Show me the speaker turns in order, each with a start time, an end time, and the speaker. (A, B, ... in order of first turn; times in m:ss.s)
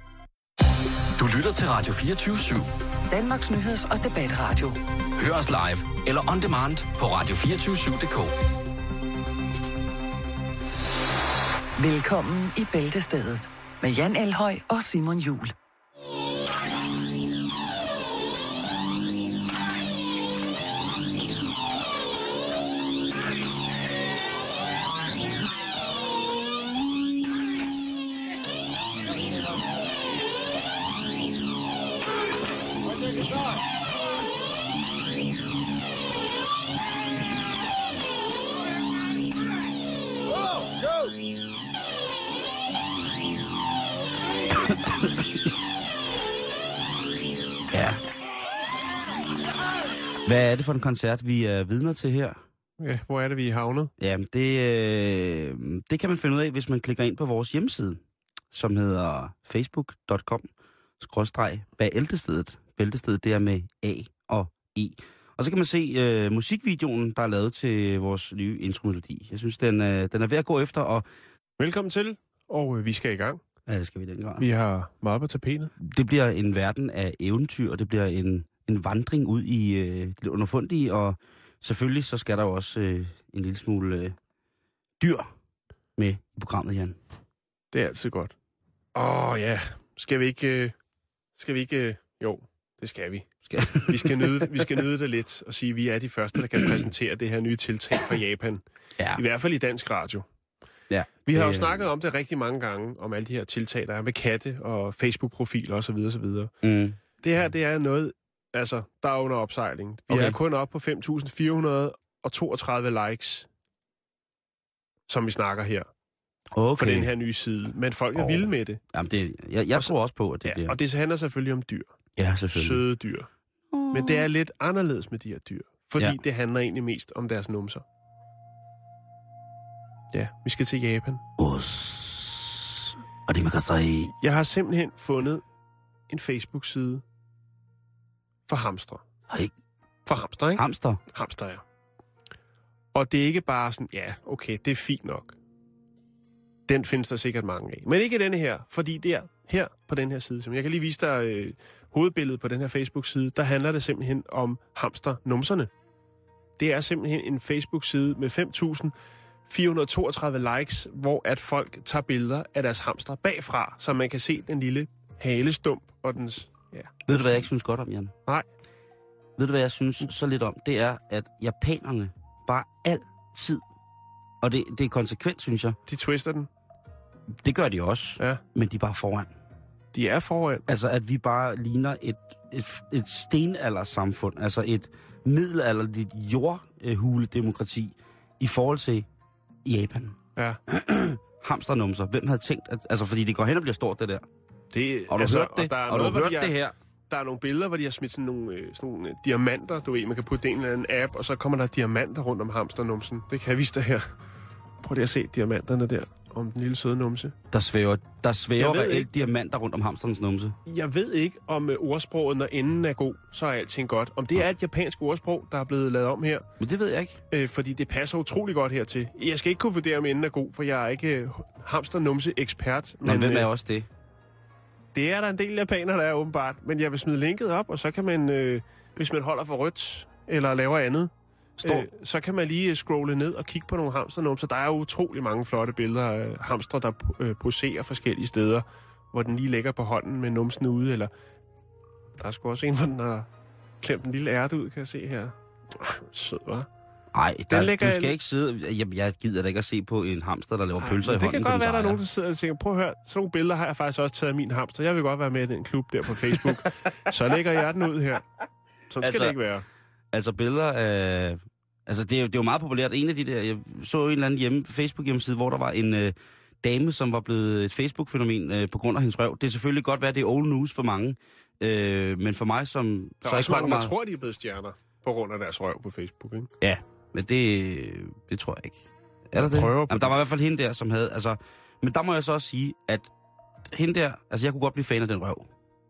0:01.2-0:02.7 A
0:03.1-0:04.8 B
0:05.2-0:08.4 A
0:11.8-0:15.5 B
0:44.5-0:45.3 C
0:47.7-0:48.0 C
0:50.2-0:52.4 C
0:52.8-0:53.9 D
0:54.0-0:58.0 C
0:58.5-1:00.5 C
1:01.0-1:11.1 C
1:11.6-1:13.4 D
1:13.7-1:14.5 C
1:14.4-1:15.7 D
1:15.8-1:24.2 C
1:25.0-1:25.3 C
1:26.0-1:27.0 C
1:27.7-1:28.4 D
1:29.0-1:30.7 D
1:31.4-1:33.3 D
1:33.5-1:34.6 C
1:33.8-1:38.6 D
1:39.1-1:40.3 D
1:40.9-1:41.8 C
1:41.3-1:46.5 D
1:46.6-1:47.0 C
1:47.2-1:53.5 D
1:50.1-1:50.4 C
1:55.1-1:55.9 D
1:56.6-1:57.1 C
1:56.8-1:58.8 D
1:58.2-2:00.8 C
1:59.7-2:01.9 D
2:02.2-2:02.8 C
2:02.5-2:03.3 D
2:03.7-2:04.3 C
2:03.9-2:07.8 D
2:10.1-2:11.2 D
2:11.4-2:14.1 C
2:14.2-2:15.4 D
2:16.1-2:17.0 D
2:18.5-2:19.0 D
2:20.1-2:21.6 D
2:20.6-2:21.0 C
2:22.9-2:25.4 D
2:26.7-2:35.7 D
2:36.6-2:38.9 D
2:39.5-2:47.5 D
2:47.1-2:48.1 C
2:49.4-2:53.6 C
2:54.4-2:55.8 C
2:55.9-2:56.5 D
2:57.4-2:59.3 C
2:59.9-3:00.7 D
3:00.7-3:09.1 C
3:09.6-3:14.2 C
3:14.7-3:16.6 D
3:15.1-3:16.7 C
3:17.1-3:24.1 D
3:24.8-3:27.4 D
3:27.5-3:30.6 C
3:28.6-3:29.1 D
3:30.6-3:36.4 D
3:36.6-3:37.2 C
3:37.3-3:43.5 D
3:43.0-3:43.9 C
3:44.9-3:51.1 D
3:51.6-3:51.9 C
3:51.6-4:01.1 D
4:02.2-4:03.3 D
4:03.8-4:06.7 D
4:07.1-4:12.0 C
4:07.5-4:08.2 D
4:10.8-4:18.2 D
4:18.9-4:19.6 D
4:19.0-4:19.4 C
4:20.1-4:33.9 C
4:33.2-4:36.5 D
4:36.6-4:43.1 C
4:39.4-4:40.2 D
4:43.7-4:45.5 C